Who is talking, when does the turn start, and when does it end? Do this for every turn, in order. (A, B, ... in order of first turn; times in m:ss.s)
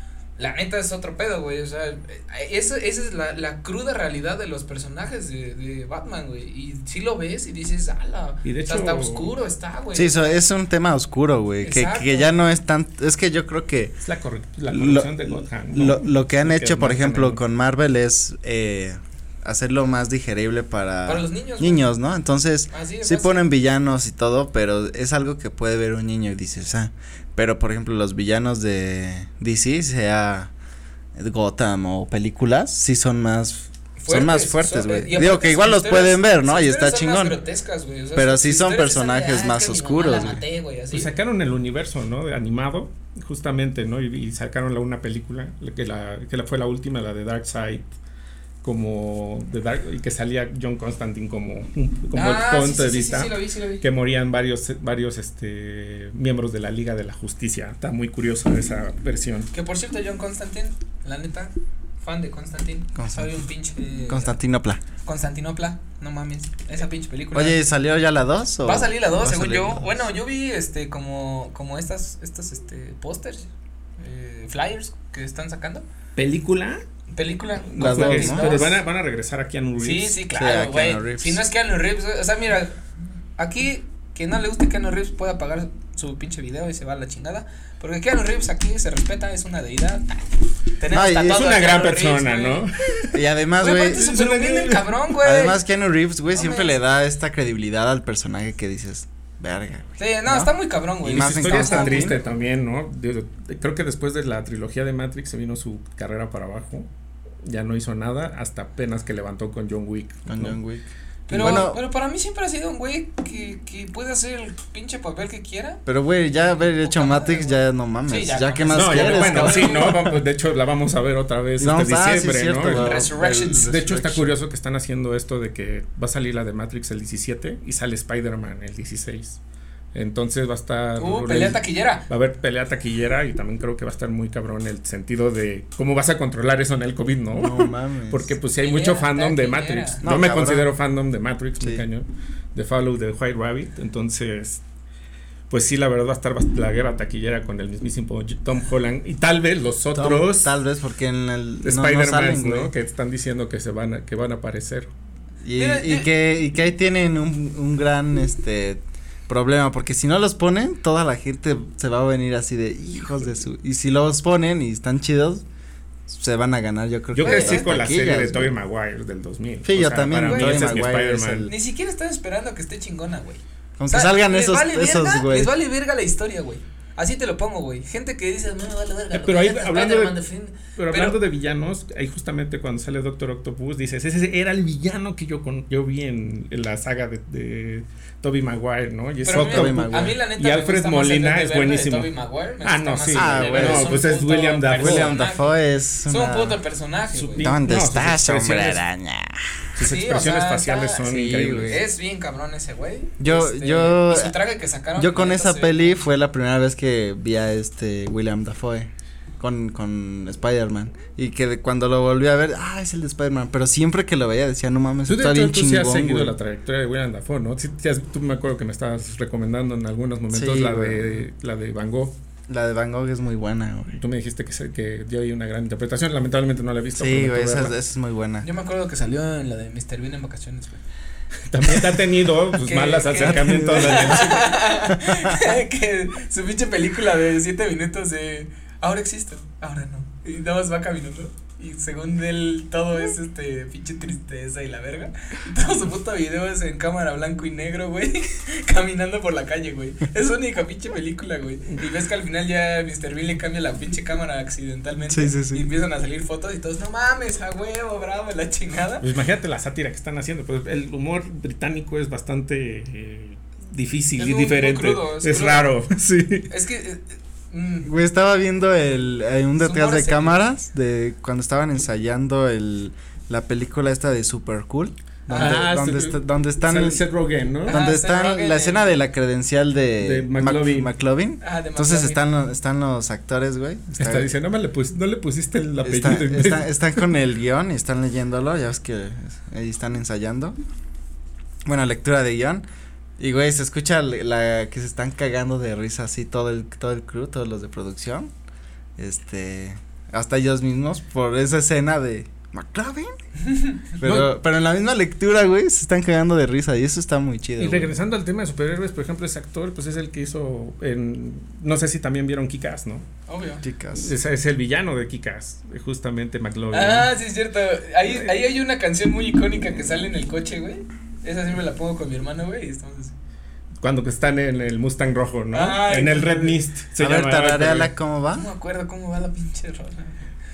0:00.4-0:10.4 A
0:08.4-0:09.3 B
0:09.9-0:14.0 C
0:11.6-0:12.3 A
0:14.0-0:17.4 B
0:14.7-0:30.5 C
0:21.0-0:21.8 A
0:22.7-0:23.4 A
0:31.2-0:37.4 C
0:34.0-0:41.1 A
0:38.1-0:40.4 C
0:40.9-0:47.9 B
0:48.6-0:59.5 B
0:52.1-0:53.8 A
0:59.5-1:04.3 A
1:02.9-1:03.4 C
1:04.1-1:04.8 C
1:05.0-1:07.6 A
1:07.3-1:10.0 C
1:08.6-1:15.8 A
1:16.2-1:16.8 B
1:17.1-1:18.8 A
1:17.7-1:20.2 B
1:17.8-1:18.7 C
1:19.8-1:22.8 A
1:20.3-1:21.4 C
1:23.4-1:32.6 A
1:30.9-1:31.5 C
1:31.2-1:33.2 B
1:33.1-1:34.1 C
1:33.6-1:35.6 A
1:33.8-1:35.0 B
1:35.2-1:40.5 C
1:36.3-1:36.7 A
1:40.0-1:42.2 A
1:41.0-1:42.2 C
1:41.1-1:46.9 B
1:47.4-1:50.6 B
1:50.3-1:51.8 C
1:51.3-1:55.8 A
1:55.8-2:00.2 C
1:56.6-2:00.0 A
1:58.7-2:09.4 B
2:01.6-2:04.4 C
2:02.7-2:03.7 A
2:09.9-2:24.6 B
2:11.0-2:12.0 A
2:17.3-2:18.4 C
2:18.6-2:20.0 A
2:20.0-2:20.7 C
2:25.5-2:30.5 B
2:29.9-2:32.7 C
2:31.6-2:34.9 B
2:35.4-2:45.4 C
2:35.6-2:36.1 A
2:46.1-2:48.5 C
2:47.1-2:51.5 B
2:47.2-2:47.7 A
2:49.6-2:51.5 C
2:50.2-2:50.7 A
2:51.5-3:01.2 A
2:53.8-2:55.5 C
2:59.1-3:00.2 B
3:00.8-3:12.1 B
3:09.2-3:17.5 A
3:09.3-3:10.1 C
3:12.6-3:15.2 B
3:13.1-3:14.0 C
3:14.8-3:16.6 C
3:17.1-3:18.8 B
3:17.4-3:19.6 C
3:19.8-3:21.8 B
3:19.8-3:21.1 A
3:21.0-3:21.8 C
3:21.7-3:26.0 A
3:23.2-3:24.3 C
3:25.0-3:28.9 C
3:29.4-3:36.3 C
3:35.1-3:42.1 B
3:40.3-3:41.2 C
3:42.5-3:44.0 C
3:43.9-3:47.7 B
3:47.0-3:48.4 C
3:48.4-3:50.8 A
3:51.5-3:54.6 B
3:52.6-4:19.0 A
3:53.2-3:54.4 C
3:55.0-3:55.4 C
4:15.1-4:15.6 C
4:19.0-4:26.5 B
4:24.2-4:25.7 A
4:26.5-4:27.9 A
4:27.8-4:37.0 C
4:29.6-4:30.4 A
4:35.3-4:35.6 A
4:35.3-4:37.8 B
4:37.6-4:38.9 A
4:37.7-4:44.3 C
4:40.0-4:40.9 B
4:41.4-4:42.2 A
4:44.0-4:46.8 B
4:45.8-4:50.6 C
4:51.6-4:52.6 C
4:53.2-4:58.3 C
4:59.0-5:03.1 C
5:03.4-5:03.8 A
5:04.0-5:07.9 C
5:04.0-5:04.3 B
5:07.6-5:13.1 B
5:13.3-5:13.6 A
5:13.6-5:14.1 C
5:14.0-5:17.1 B
5:16.7-5:23.1 A
5:23.8-5:27.9 B
5:25.5-5:26.6 A
5:27.0-5:28.5 C
5:28.3-5:30.3 A